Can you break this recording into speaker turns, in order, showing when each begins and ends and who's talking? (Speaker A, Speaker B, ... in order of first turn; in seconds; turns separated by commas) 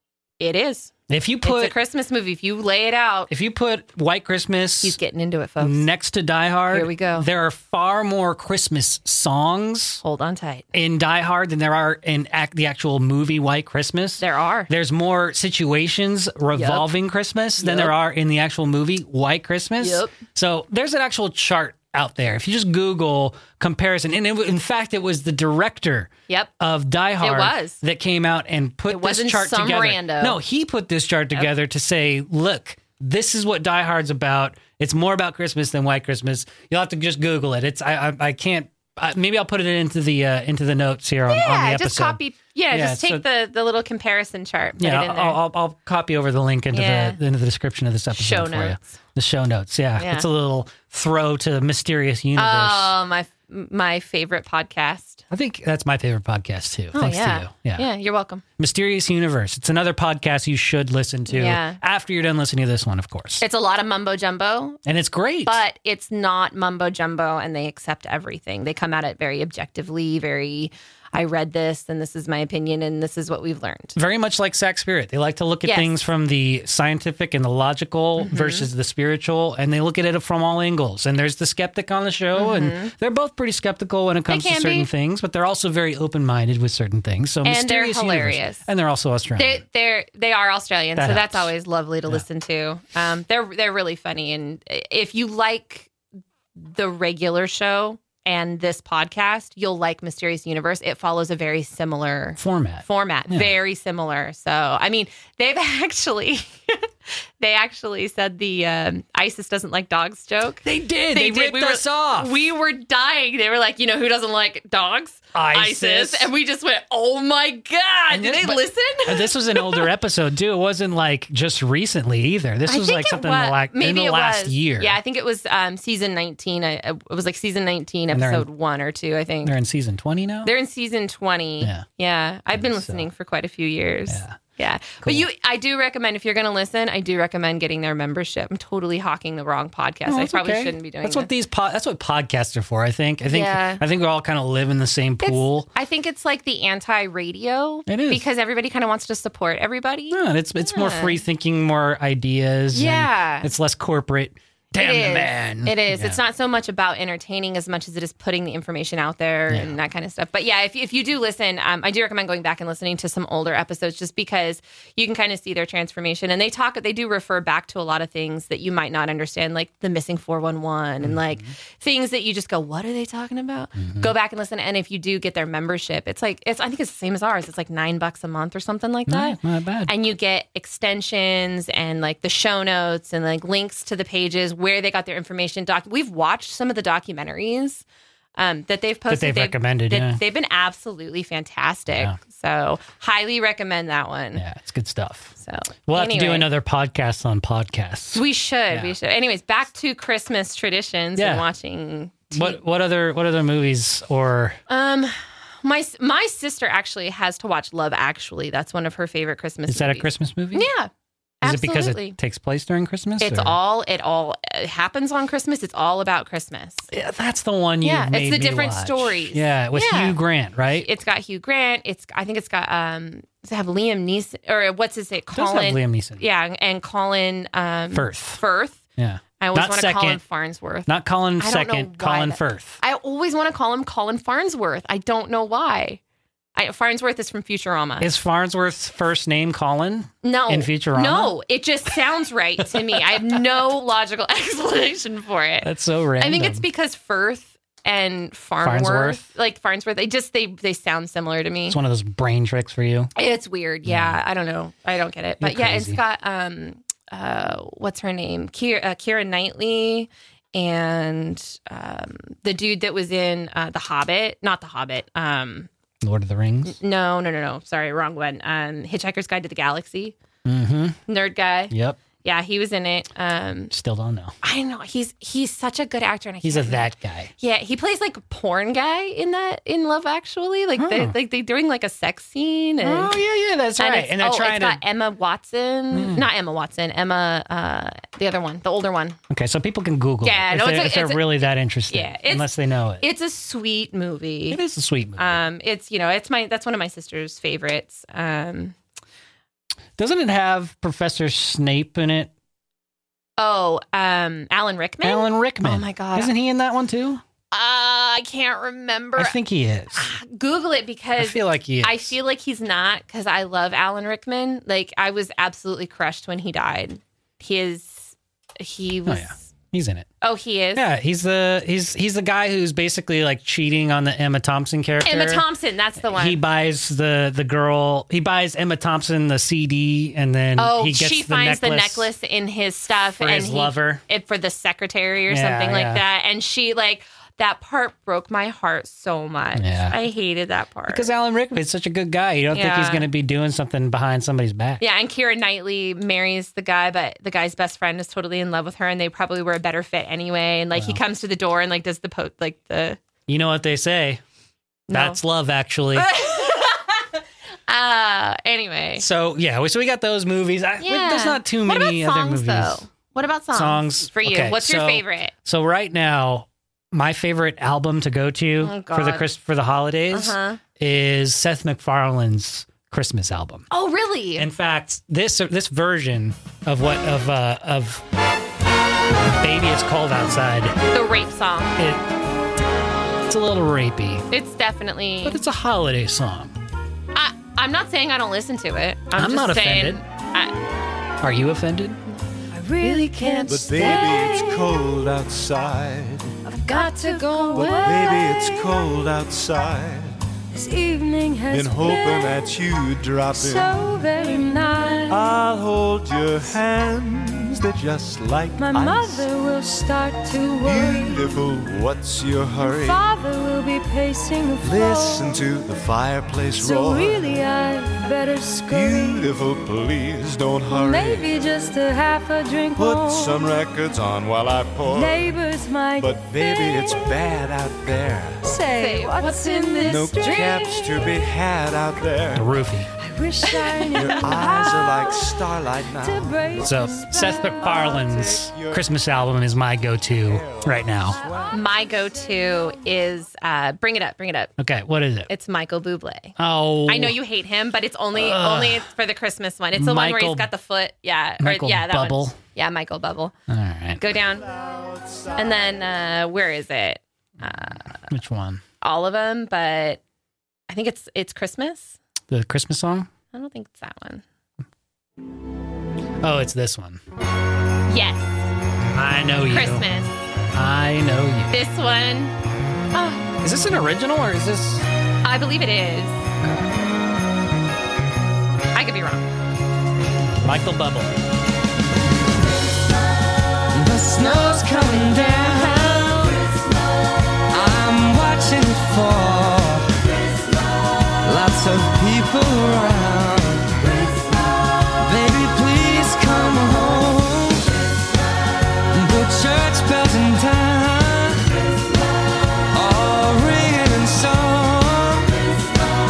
Speaker A: 0.4-3.3, Speaker B: 1.1-1.7, Speaker B: 3.3-5.0, Speaker A: 4.8-5.8, Speaker B: 5.6-10.0, Speaker A: 6.7-7.2, Speaker A: 10.0-10.7, Speaker B: 10.7-42.2, Speaker A: 14.2-14.7, Speaker A: 16.5-16.9, Speaker A: 17.6-17.9, Speaker A: 19.8-20.1, Speaker A: 27.2-27.8, Speaker A: 28.9-30.4, Speaker A: 41.3-45.4, Speaker B: 42.7-43.2, Speaker B: 44.8-52.9, Speaker A: 46.7-47.2, Speaker A: 48.1-49.0, Speaker A: 50.0-50.2, Speaker A: 52.4-55.2, Speaker B: 55.3-57.9, Speaker A: 56.9-58.4, Speaker B: 58.6-63.4, Speaker A: 61.3-61.8, Speaker A: 63.4-64.8, Speaker B: 64.8-65.6, Speaker A: 65.5-74.0, Speaker B: 73.9-89.6, Speaker A: 75.6-75.9, Speaker A: 78.2-78.7, Speaker A: 82.3-82.9, Speaker A: 84.3-84.9, Speaker A: 87.4-88.6, Speaker A: 89.4-95.9, Speaker B: 91.0-91.5, Speaker A: 96.6-106.9, Speaker B: 102.4-103.5, Speaker A: 107.4-119.9, Speaker B: 110.6-112.5, Speaker B: 115.3-116.3, Speaker B: 118.1-125.0, Speaker A: 122.7-129.6, Speaker B: 128.1-128.5, Speaker B: 129.4-130.5, Speaker A: 130.4-141.3, Speaker B: 132.5-133.0, Speaker B: 134.1-134.4, Speaker B: 140.1-145.7, Speaker A: 143.3-143.8, Speaker A: 145.2-151.2, Speaker B: 147.9-148.2, Speaker B: 150.1-156.2, Speaker A: 152.7-153.5, Speaker A: 154.8-187.8, Speaker B: 159.5-159.7, Speaker B: 171.0-171.5, Speaker B: 173.8-174.1, Speaker B: 179.1-179.9, Speaker A: 188.3-194.4, Speaker B: 189.1-190.2, Speaker B: 191.9-192.2, Speaker B: 194.3-195.3, Speaker A: 195.4-196.5, Speaker B: 195.9-198.9, Speaker A: 198.1-202.6, Speaker B: 201.2-201.4, Speaker B: 202.3-204.6, Speaker A: 204.7-212.2, Speaker B: 209.7-210.7, Speaker B: 211.4-213.6, Speaker A: 213.2-216.9, Speaker B: 216.9-220.9, Speaker A: 217.8-220.2, Speaker A: 220.8-228.8, Speaker B: 225.3-226.2, Speaker B: 227.9-228.4, Speaker B: 229.0-230.2, Speaker A: 229.4-236.0, Speaker B: 230.8-232.8, Speaker A: 236.6-238.1, Speaker B: 238.0-241.3, Speaker A: 240.2-251.8, Speaker B: 245.6-246.6, Speaker B: 248.6-249.2, Speaker B: 251.7-253.1, Speaker A: 253.2-265.7, Speaker B: 253.8-254.2, Speaker B: 255.4-256.0, Speaker B: 266.0-266.8, Speaker A: 266.7-270.1, Speaker B: 270.4-271.0, Speaker A: 271.1-273.7, Speaker B: 271.7-272.0, Speaker B: 273.7-274.3, Speaker A: 274.4-276.9, Speaker B: 276.4-277.3, Speaker A: 277.4-283.2, Speaker B: 280.8-281.1, Speaker B: 282.8-284.8, Speaker A: 283.8-289.2, Speaker B: 285.9-286.3, Speaker B: 289.3-293.0, Speaker A: 290.2-294.6, Speaker B: 294.5-295.4, Speaker A: 295.2-298.7, Speaker B: 300.0-302.3, Speaker A: 303.4-306.3, Speaker B: 305.0-307.2, Speaker A: 307.5-309.4, Speaker B: 309.1-310.1, Speaker A: 309.9-319.4, Speaker B: 311.2-312.1, Speaker B: 319.1-320.1, Speaker A: 320.2-320.9, Speaker B: 320.7-325.4, Speaker A: 325.0-326.4, Speaker B: 326.0-332.1, Speaker A: 330.6-341.1, Speaker B: 333.2-334.0, Speaker B: 335.3-336.0, Speaker B: 339.6-339.9, Speaker B: 340.9-344.8, Speaker A: 342.5-343.1, Speaker A: 344.8-353.0, Speaker B: 350.7-351.0, Speaker B: 353.3-354.2, Speaker A: 354.9-355.2, Speaker B: 354.9-356.1, Speaker A: 355.9-357.1, Speaker A: 357.7-359.0, Speaker B: 359.0-362.9, Speaker A: 360.8-365.3, Speaker B: 363.5-373.7, Speaker A: 368.6-369.3, Speaker A: 370.1-370.6, Speaker A: 373.7-374.4, Speaker B: 374.4-378.0, Speaker B: 379.4-380.8, Speaker A: 380.9-381.8, Speaker B: 381.8-382.0, Speaker B: 383.3-384.2, Speaker A: 384.3-385.4, Speaker B: 385.2-386.6, Speaker A: 387.1-390.6, Speaker B: 389.1-390.0, Speaker B: 391.2-392.0, Speaker C: 392.5-394.8, Speaker A: 392.8-394.5, Speaker D: 393.5-396.3, Speaker C: 396.4-398.8, Speaker A: 396.6-398.1, Speaker D: 397.5-400.2, Speaker C: 400.5-402.4, Speaker D: 401.5-404.0, Speaker C: 403.3-405.3, Speaker D: 405.1-409.3, Speaker C: 408.6-411.4, Speaker D: 410.6-413.1, Speaker C: 412.6-415.4, Speaker D: 414.6-417.4, Speaker C: 416.6-419.3, Speaker D: 418.7-421.4, Speaker C: 420.7-423.6, Speaker D: 422.8-425.4, Speaker C: 424.8-427.2, Speaker D: 425.9-428.5, Speaker C: 428.4-431.1, Speaker A: 428.7-430.1, Speaker D: 429.8-432.5, Speaker B: 432.3-432.9, Speaker C: 433.0-435.4, Speaker A: 433.8-434.3, Speaker D: 433.9-436.6, Speaker C: 435.9-437.9, Speaker B: 436.6-441.2, Speaker D: 437.7-438.9, Speaker D: 440.2-441.6, Speaker A: 441.5-444.5, Speaker B: 444.6-445.3, Speaker A: 445.3-446.4, Speaker B: 446.4-447.2, Speaker A: 446.9-453.3, Speaker B: 448.1-448.9, Speaker B: 449.7-450.5, Speaker B: 451.4-452.4, Speaker B: 453.5-454.0, Speaker A: 454.0-454.5, Speaker D: 454.5-455.3, Speaker A: 455.4-458.1, Speaker B: 458.1-458.6, Speaker A: 458.8-460.0, Speaker A: 460.7-461.9, Speaker B: 462.3-463.1, Speaker A: 463.3-464.2, Speaker B: 466.2-467.0, Speaker A: 467.9-468.4, Speaker B: 468.9-469.8, Speaker A: 469.5-470.1, Speaker B: 470.5-471.6, Speaker A: 471.5-472.3, Speaker A: 472.9-473.3, Speaker B: 473.4-474.8, Speaker A: 475.2-476.2, Speaker A: 478.7-479.3, Speaker B: 480.4-481.1, Speaker E: 483.7-486.5, Speaker E: 487.5-490.0, Speaker E: 491.2-494.1, Speaker E: 494.9-497.8, Speaker E: 498.9-501.6, Speaker E: 502.7-505.4